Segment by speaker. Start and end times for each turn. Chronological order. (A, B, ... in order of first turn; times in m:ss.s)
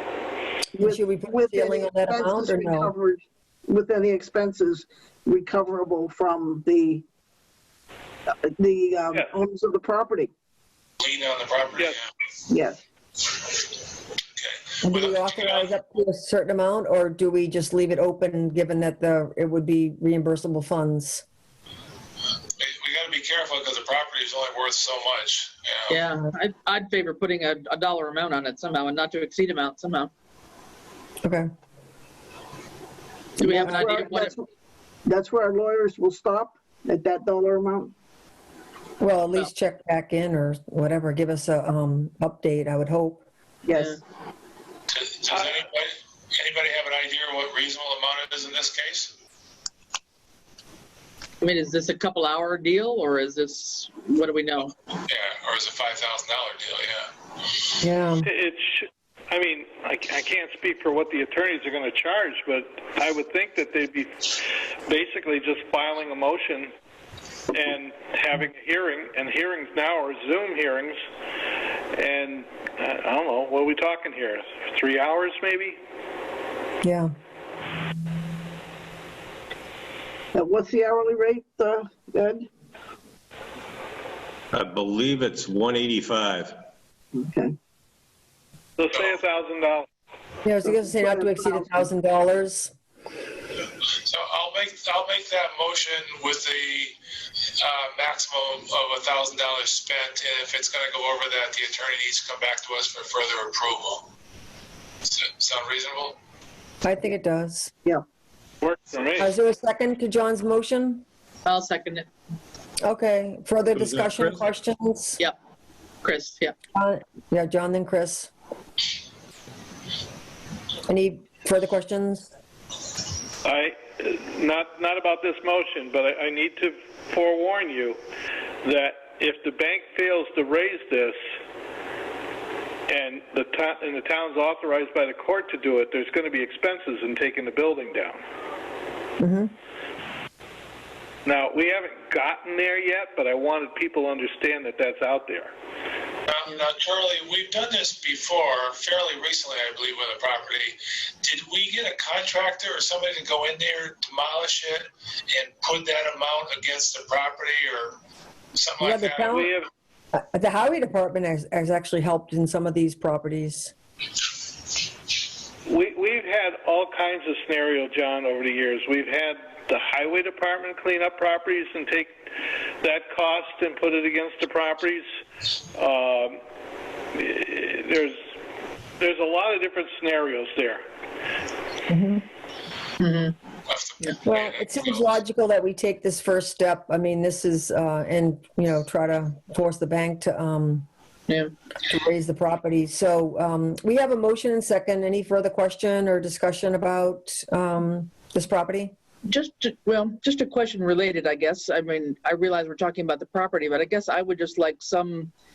0:00.8-0:07.1 A
0:00.8-0:02.9 B
0:08.3-0:10.3 A
0:11.0-0:12.1 C
0:12.5-0:12.8 A
0:14.4-0:15.7 C
0:14.8-0:21.2 B
0:22.6-0:26.0 C
0:25.9-0:30.1 D
0:33.4-0:34.4 D
0:33.4-0:34.5 A
0:35.1-0:37.9 A
0:39.0-0:43.2 B
0:43.7-0:44.0 A
0:44.9-0:49.1 C
0:51.4-0:54.8 D
0:55.1-0:57.7 C
0:57.8-0:58.3 B
0:58.2-1:06.7 E
1:07.5-1:11.0 E
1:11.9-1:15.8 E
1:16.8-1:17.1 B
1:20.3-1:22.5 A
1:24.5-1:26.5 F
1:27.1-1:27.6 A
1:28.8-1:29.9 E
1:28.9-1:29.2 C
1:30.4-1:32.7 B
1:30.6-1:31.9 A
1:33.9-1:37.0 C
1:37.6-1:44.1 C
1:45.0-1:46.2 C
1:46.8-1:47.7 B
1:48.6-1:49.3 E
1:49.2-1:51.0 B
1:51.4-1:52.1 D
1:52.8-1:55.2 B
1:53.8-1:54.2 F
1:56.0-1:56.5 D
1:56.8-1:58.3 B
2:00.9-2:02.3 B
2:03.4-2:08.0 E
2:08.6-2:11.2 E
2:12.9-2:18.2 E
2:19.2-2:19.5 B
2:21.3-2:25.5 E
2:26.3-2:38.0 C
2:38.6-2:39.3 C
2:38.8-2:39.5 B
2:39.3-2:39.7 E
2:40.1-2:43.7 B
2:45.7-2:52.1 E
2:52.8-2:55.1 E
2:55.7-2:56.4 E
2:57.1-2:58.2 E
2:59.0-3:00.8 E
3:01.9-3:02.2 B
3:03.0-3:03.4 D
3:03.7-3:05.2 C
3:04.2-3:10.9 B
3:11.9-3:18.9 B
3:19.3-3:25.3 D